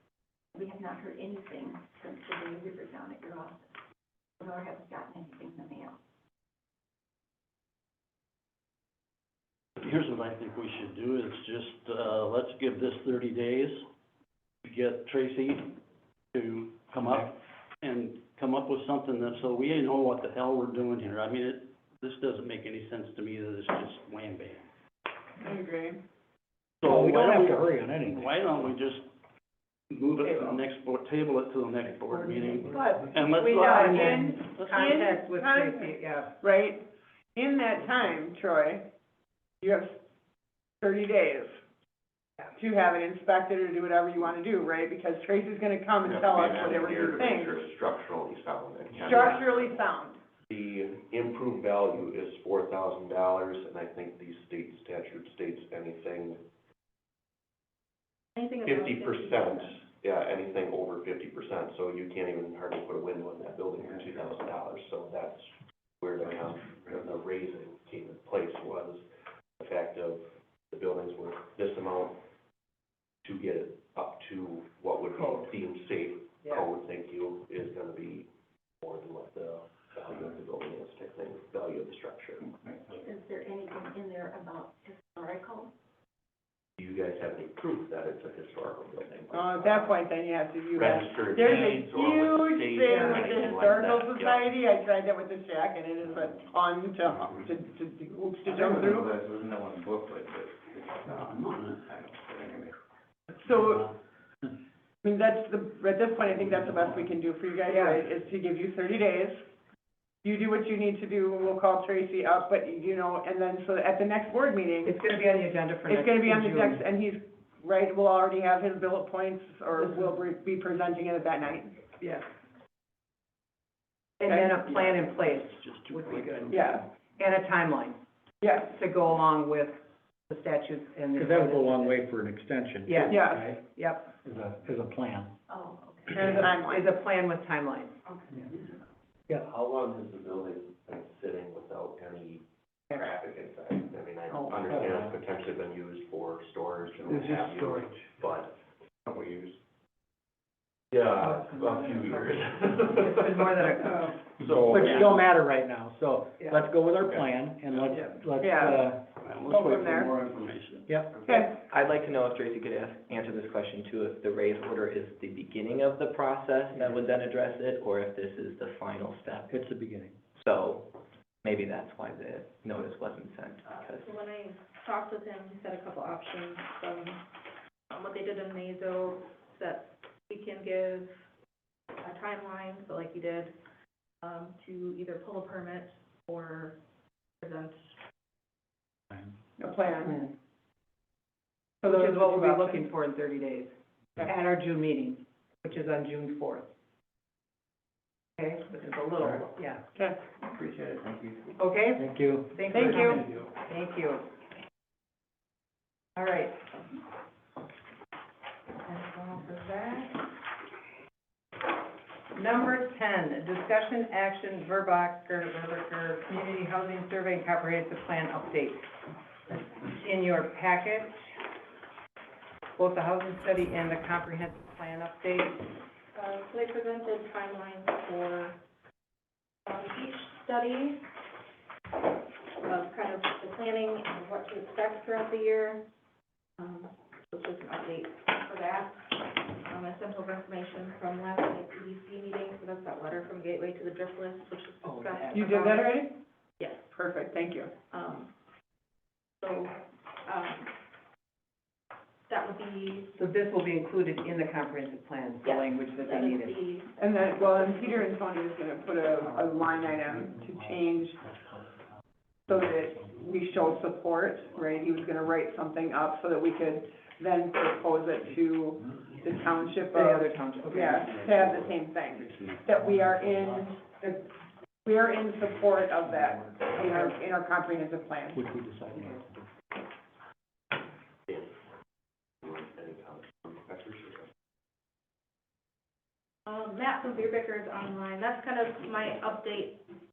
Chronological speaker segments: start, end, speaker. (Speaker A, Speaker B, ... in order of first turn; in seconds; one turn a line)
Speaker A: 0.5-3.8
Speaker A: 4.4-6.0
Speaker B: 9.8-13.8
Speaker B: 14.6-15.7
Speaker B: 16.3-24.6
Speaker C: 25.4-26.0
Speaker B: 26.8-29.0
Speaker D: 26.8-28.3
Speaker B: 29.9-34.8
Speaker E: 32.7-36.4
Speaker C: 33.6-38.9
Speaker C: 39.6-40.0
Speaker C: 40.8-41.6
Speaker C: 42.5-47.7
Speaker F: 46.1-47.0
Speaker G: 47.3-49.2
Speaker C: 48.9-50.2
Speaker G: 50.5-56.4
Speaker H: 58.4-59.7
Speaker G: 58.6-69.0
Speaker G: 69.6-72.2
Speaker G: 73.2-78.3
Speaker G: 78.8-82.5
Speaker A: 82.9-85.7
Speaker G: 86.8-89.9
Speaker C: 89.3-99.2
Speaker G: 90.7-94.5
Speaker F: 98.5-102.7
Speaker B: 101.0-101.8
Speaker C: 103.3-103.9
Speaker C: 105.0-109.4
Speaker E: 107.7-108.0
Speaker C: 110.2-114.9
Speaker E: 114.8-116.8
Speaker C: 115.9-121.8
Speaker E: 122.0-122.2
Speaker E: 124.2-129.7
Speaker C: 124.2-124.5
Speaker B: 125.2-126.7
Speaker C: 126.5-126.8
Speaker E: 130.3-132.0
Speaker D: 131.2-133.6
Speaker E: 132.8-134.1
Speaker C: 133.1-133.4
Speaker D: 134.2-135.3
Speaker H: 135.5-136.7
Speaker C: 136.1-136.8
Speaker E: 136.2-137.9
Speaker H: 138.1-138.6
Speaker G: 139.3-148.5
Speaker D: 144.7-145.0
Speaker G: 149.1-149.6
Speaker G: 150.9-155.2
Speaker E: 151.2-152.1
Speaker E: 152.9-154.1
Speaker D: 154.4-159.0
Speaker E: 154.7-155.1
Speaker C: 158.4-158.8
Speaker B: 159.2-160.9
Speaker C: 159.5-160.1
Speaker D: 160.9-161.2
Speaker C: 161.2-161.5
Speaker I: 161.4-169.6
Speaker D: 169.5-170.2
Speaker I: 170.4-170.9
Speaker I: 171.4-174.2
Speaker H: 173.8-177.2
Speaker H: 177.9-181.2
Speaker H: 182.0-183.5
Speaker H: 184.2-186.8
Speaker H: 187.4-187.9
Speaker C: 189.6-190.2
Speaker E: 189.9-190.3
Speaker E: 191.8-196.6
Speaker C: 191.8-192.8
Speaker E: 198.4-199.8
Speaker F: 200.7-201.3
Speaker E: 201.6-204.2
Speaker D: 202.0-203.2
Speaker C: 202.7-203.2
Speaker E: 206.2-206.6
Speaker E: 208.8-210.2
Speaker E: 212.3-218.8
Speaker E: 219.5-221.2
Speaker E: 222.8-225.6
Speaker H: 226.1-228.6
Speaker H: 229.7-231.0
Speaker H: 232.6-235.8
Speaker H: 236.6-245.9
Speaker E: 244.9-245.9
Speaker C: 245.3-246.2
Speaker C: 246.9-247.7
Speaker H: 247.9-248.3
Speaker H: 249.4-250.7
Speaker H: 252.3-253.2
Speaker E: 253.1-256.6
Speaker H: 255.4-258.1
Speaker C: 257.0-261.2
Speaker C: 262.5-274.3
Speaker E: 269.9-271.5
Speaker C: 274.8-278.4
Speaker E: 276.8-277.1
Speaker E: 278.9-279.2
Speaker G: 281.3-281.5
Speaker G: 282.4-284.3
Speaker H: 286.4-289.8